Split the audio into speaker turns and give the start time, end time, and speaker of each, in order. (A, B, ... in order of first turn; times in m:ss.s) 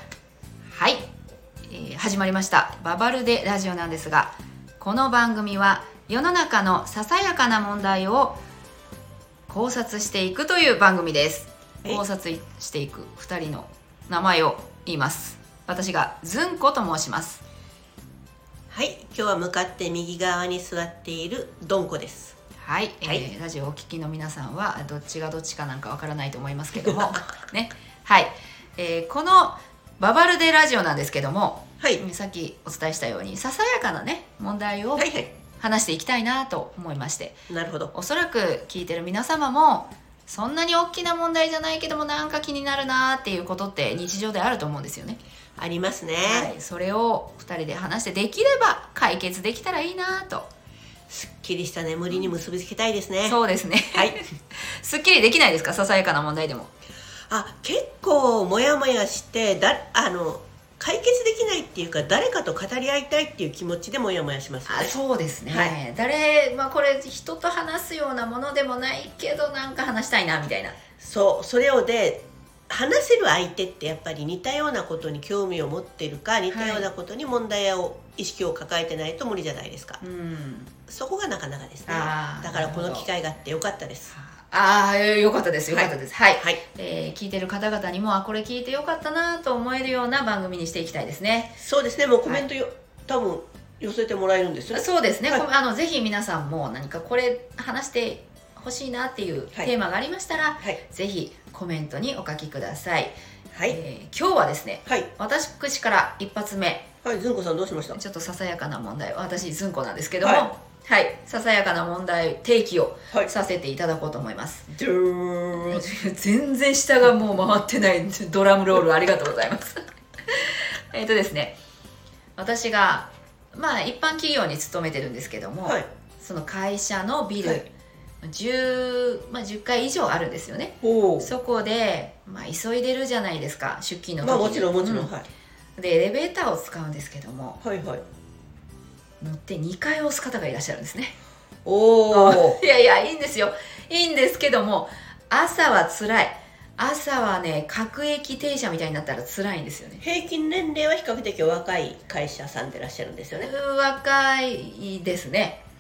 0:00.7-0:01.1 A
0:01.7-0:08.4 A
0:09.5-0:17.4 A
0:18.7-0:22.4 B
0:22.6-0:37.4 A
0:26.8-0:27.2 B
0:35.0-0:35.3 B
0:37.5-0:37.9 B
0:37.9-0:45.2 A
0:45.6-0:46.5 B
0:46.2-0:50.5 A
0:51.1-0:53.4 B
0:53.3-0:56.7 A
0:57.3-1:05.0 B
1:04.7-1:10.8 A
1:05.5-1:05.8 B
1:11.0-1:20.0 B
1:16.5-1:16.9 A
1:20.0-1:20.7 A
1:20.9-1:24.1 B
1:21.9-1:23.1 A
1:24.1-1:31.5 A
1:25.7-1:26.6 B
1:31.6-1:35.4 B
1:34.7-1:43.2 A
1:43.7-1:46.9 A
1:47.0-1:48.0 B
1:48.0-1:54.7 A
1:50.2-1:50.5 B
1:54.7-1:55.8 B
1:55.6-2:01.6 A
2:02.4-2:07.7 A
2:08.2-2:15.1 A
2:10.8-2:11.3 B
2:14.2-2:15.3 B
2:15.8-2:17.6 A
2:17.6-2:18.0 B
2:19.2-2:21.2 A
2:21.6-2:22.6 B
2:22.1-2:30.0 A
2:30.0-2:33.5 B
2:33.4-2:35.6 A